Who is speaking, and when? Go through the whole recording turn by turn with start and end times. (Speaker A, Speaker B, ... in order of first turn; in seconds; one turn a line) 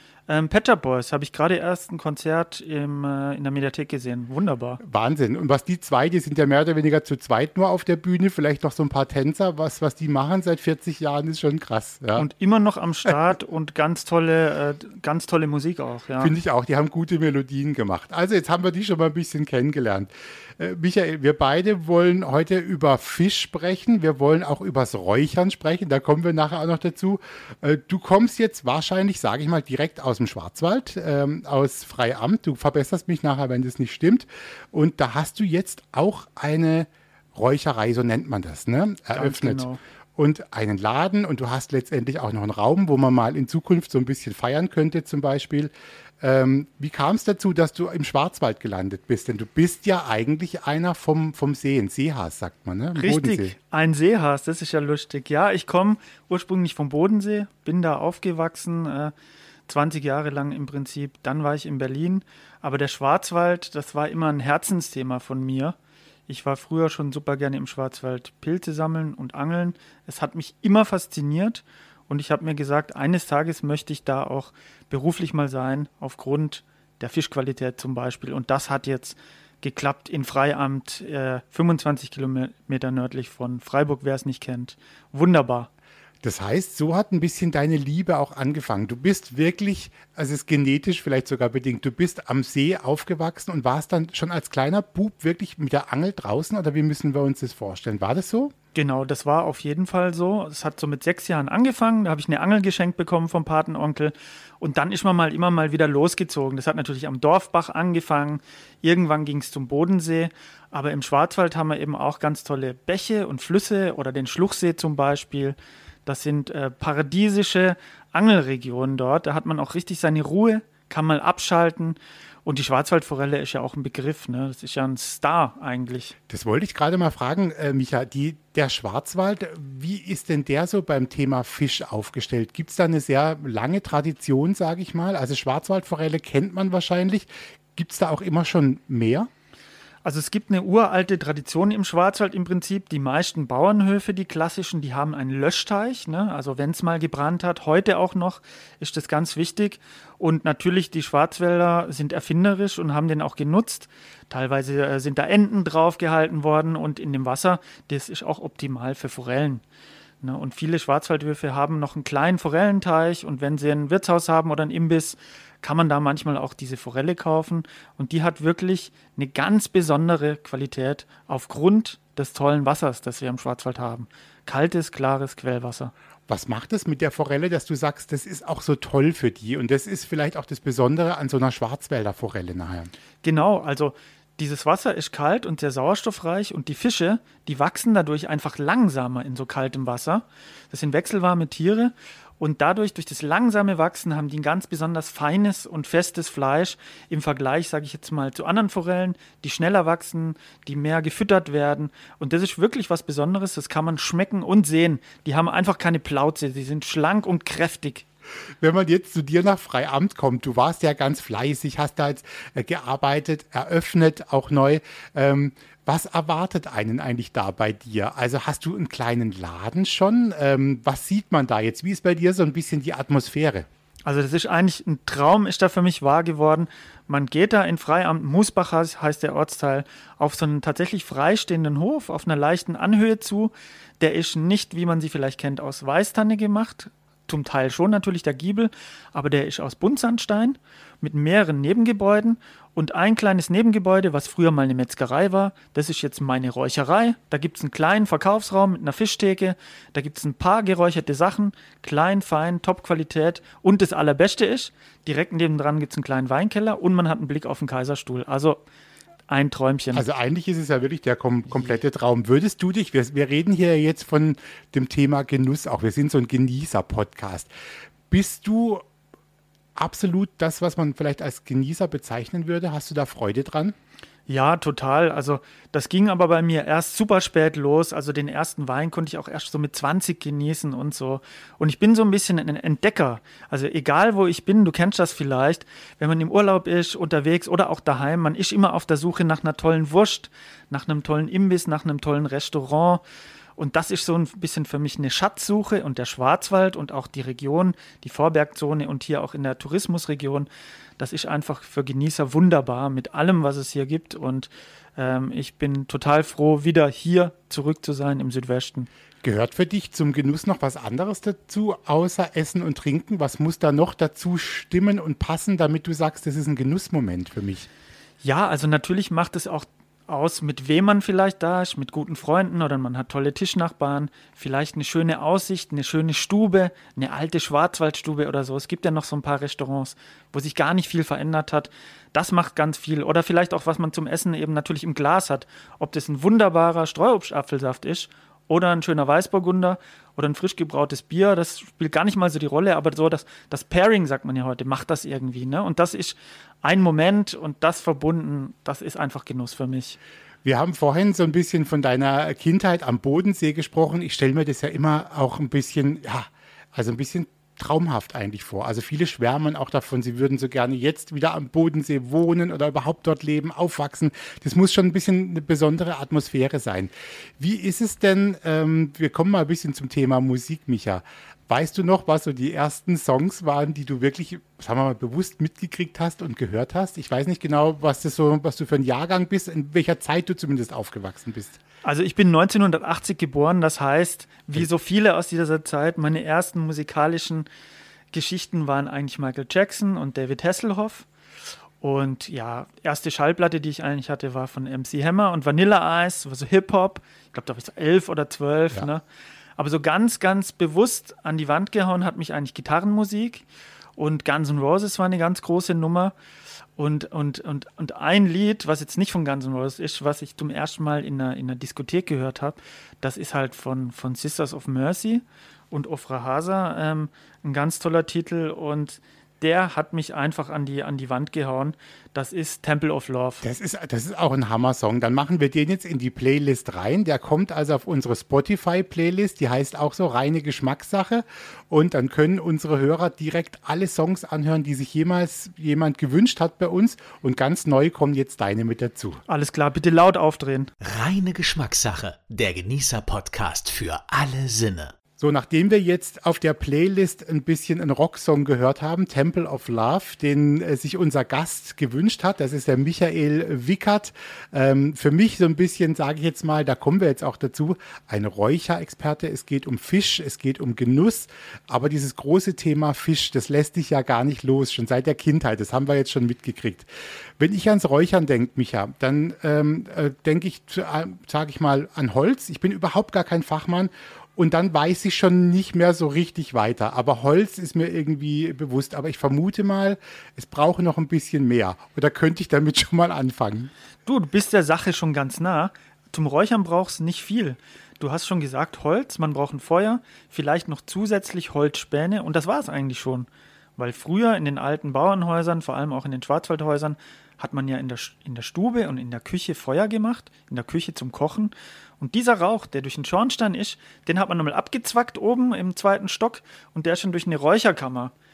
Speaker A: 0.3-4.8
Speaker B: 4.8-12.3
Speaker A: 12.2-16.3
Speaker B: 16.2-53.5
Speaker A: 39.1-39.8
Speaker A: 53.0-59.1
Speaker A: 59.7-65.8
Speaker A: 66.3-85.7
Speaker B: 86.2-98.5
Speaker A: 98.8-126.2
Speaker B: 126.3-139.3
Speaker A: 140.0-159.6
Speaker A: 160.2-175.9
Speaker B: 176.3-182.9
Speaker A: 183.2-208.1
Speaker B: 208.6-223.7
Speaker A: 224.1-258.6
Speaker A: 259.3-260.0
Speaker B: 259.9-267.5
Speaker B: 268.1-268.9
Speaker B: 269.8-273.8
Speaker A: 274.3-293.0
Speaker A: 293.6-300.5
Speaker A: 301.0-308.9
Speaker B: 309.2-317.7
Speaker A: 318.2-350.0
Speaker B: 350.4-381.6
Speaker A: 381.8-387.5
Speaker A: 388.1-391.1
Speaker A: 391.8-399.0
Speaker A: 399.6-403.4
Speaker A: 404.0-406.1
Speaker A: 406.8-423.4
Speaker B: 423.4-439.2
Speaker A: 439.3-440.7
Speaker C: 440.8-444.9
Speaker B: 445.2-466.9
Speaker B: 467.4-483.7
Speaker A: 484.1-508.1